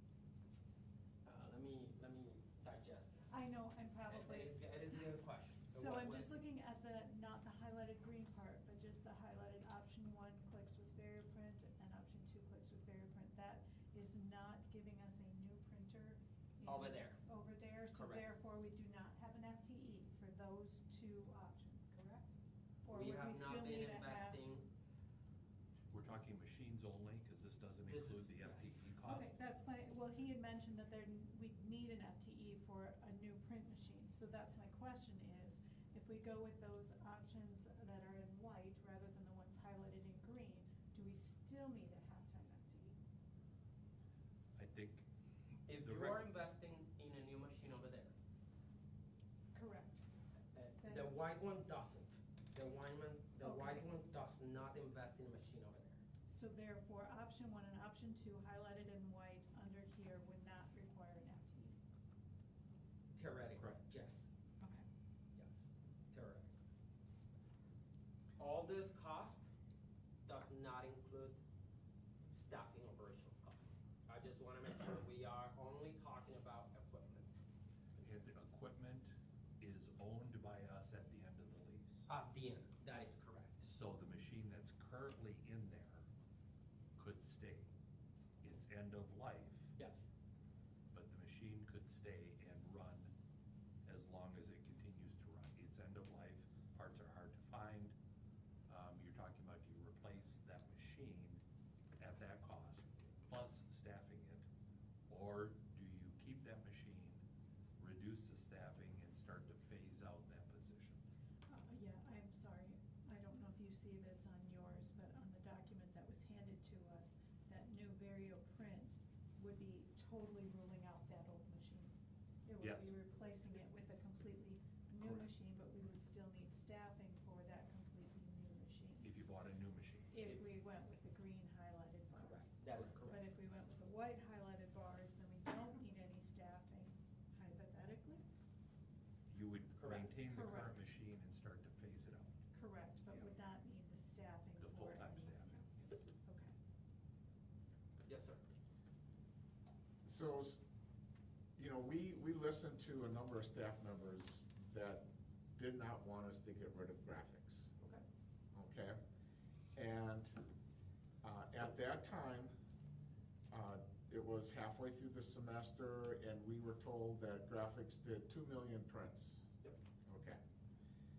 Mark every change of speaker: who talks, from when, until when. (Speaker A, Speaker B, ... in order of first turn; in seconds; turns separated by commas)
Speaker A: 1.2-3.4, Speaker B: 3.3-5.0, Speaker A: 4.1-6.3, Speaker B: 5.6-24.4, Speaker A: 16.6-17.2, Speaker A: 17.9-18.2, Speaker A: 22.9-24.7, Speaker C: 25.9-29.3, Speaker A: 27.8-28.8, Speaker B: 29.0-42.9, Speaker C: 44.5-46.2, Speaker A: 45.7-48.1, Speaker B: 49.5-50.0, Speaker A: 50.5-56.0, Speaker B: 50.8-51.1, Speaker B: 53.4-53.9, Speaker B: 56.3-61.8, Speaker A: 63.1-64.3, Speaker A: 65.3-66.5, Speaker A: 68.4-69.5, Speaker A: 70.2-71.4, Speaker A: 72.3-77.4, Speaker C: 78.0-82.1, Speaker A: 82.1-83.6, Speaker C: 83.6-86.0, Speaker C: 87.0-87.7, Speaker C: 88.4-89.7, Speaker A: 89.8-90.1, Speaker C: 90.9-93.1, Speaker C: 93.8-97.9, Speaker C: 98.7-101.4, Speaker C: 102.0-104.5, Speaker C: 105.1-107.2, Speaker C: 107.8-111.0, Speaker B: 111.5-121.9, Speaker B: 122.5-129.1, Speaker C: 122.6-123.0, Speaker C: 129.0-130.1, Speaker B: 130.1-138.2, Speaker A: 132.1-133.2, Speaker C: 139.3-142.3, Speaker A: 139.8-140.1, Speaker B: 140.2-140.8, Speaker B: 142.5-146.5, Speaker C: 144.6-145.9, Speaker A: 148.0-148.4, Speaker D: 150.0-150.6, Speaker D: 151.6-155.0, Speaker D: 155.6-157.7, Speaker D: 158.5-159.0, Speaker D: 159.7-160.4, Speaker D: 161.2-162.5, Speaker D: 163.5-169.5, Speaker D: 170.1-170.4